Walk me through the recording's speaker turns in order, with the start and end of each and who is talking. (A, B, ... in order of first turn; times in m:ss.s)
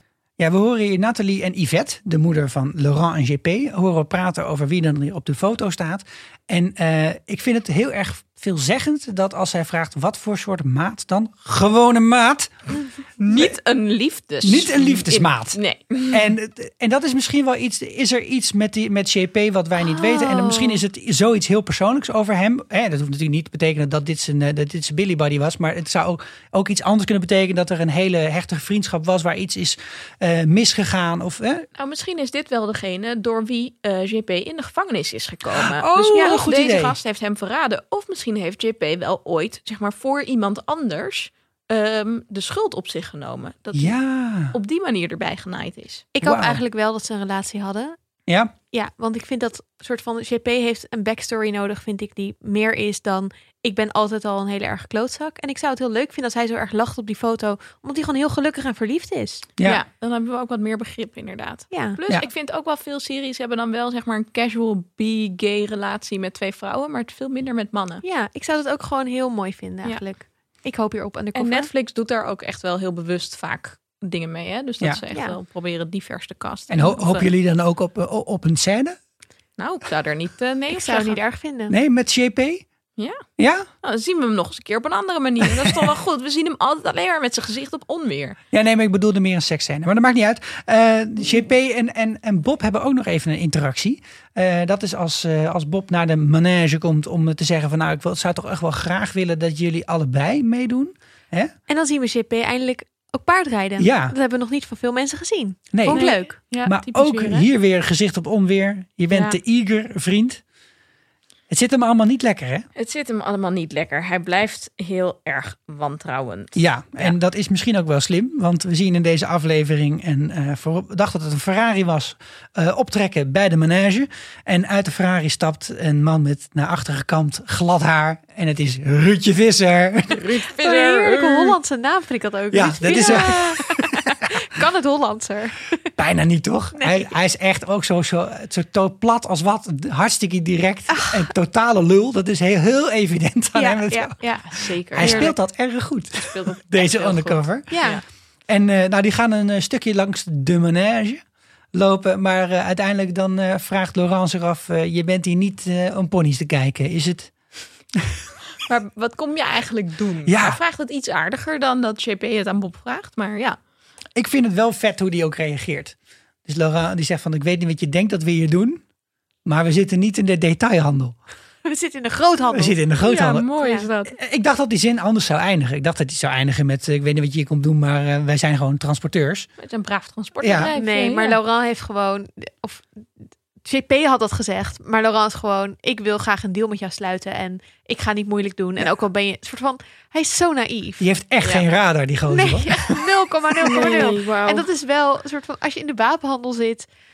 0:00.4-0:12.6 A
0:13.2-0:16.4 B
0:14.4-0:31.7 A
0:19.8-0:20.8 C
0:31.8-0:44.0 B
0:35.7-0:37.0 A
0:43.7-0:44.5 A
0:44.5-0:46.0 B
0:46.2-0:48.0 C
0:46.2-0:46.6 A
0:48.7-0:59.5 C
0:59.6-1:08.0 B
1:01.7-1:02.0 C
1:08.0-1:11.7 C
1:11.4-1:17.3 B
1:16.7-1:19.0 A
1:19.6-1:21.2 B
1:20.7-1:21.7 C
1:21.7-1:22.6 A
1:23.0-1:23.2 B
1:23.4-1:23.7 A
1:23.8-1:28.4 B
1:28.5-1:41.5 A
1:41.7-1:46.4 C
1:43.8-1:44.2 A
1:45.7-1:50.4 A
1:45.9-1:47.5 B
1:49.1-1:49.4 B
1:51.5-1:52.7 A
1:52.8-1:57.2 B
1:56.6-2:10.2 A
2:10.1-2:11.6 B
2:10.6-2:15.9 C
2:12.5-2:13.6 A
2:12.9-2:13.3 B
2:16.0-2:24.2 A
2:16.8-2:17.1 C
2:23.6-2:25.3 C
2:24.4-2:25.4 B
2:25.0-2:27.9 A
2:26.1-2:28.0 B
2:27.7-2:28.0 C
2:28.5-2:37.4 A
2:38.6-2:43.6 B
2:40.3-2:40.6 A
2:44.2-2:46.0 A
2:46.5-2:48.8 A
2:49.4-2:51.2 A
2:51.6-2:52.8 C
2:52.5-2:53.5 A
2:53.0-2:54.2 B
2:53.6-2:53.9 C
2:54.1-2:59.5 A
2:59.6-3:01.4 B
3:00.4-3:00.7 A
3:00.7-3:02.9 C
3:03.6-3:11.0 C
3:11.0-3:13.0 A
3:12.3-3:16.9 C
3:13.7-3:13.9 A
3:13.7-3:14.7 B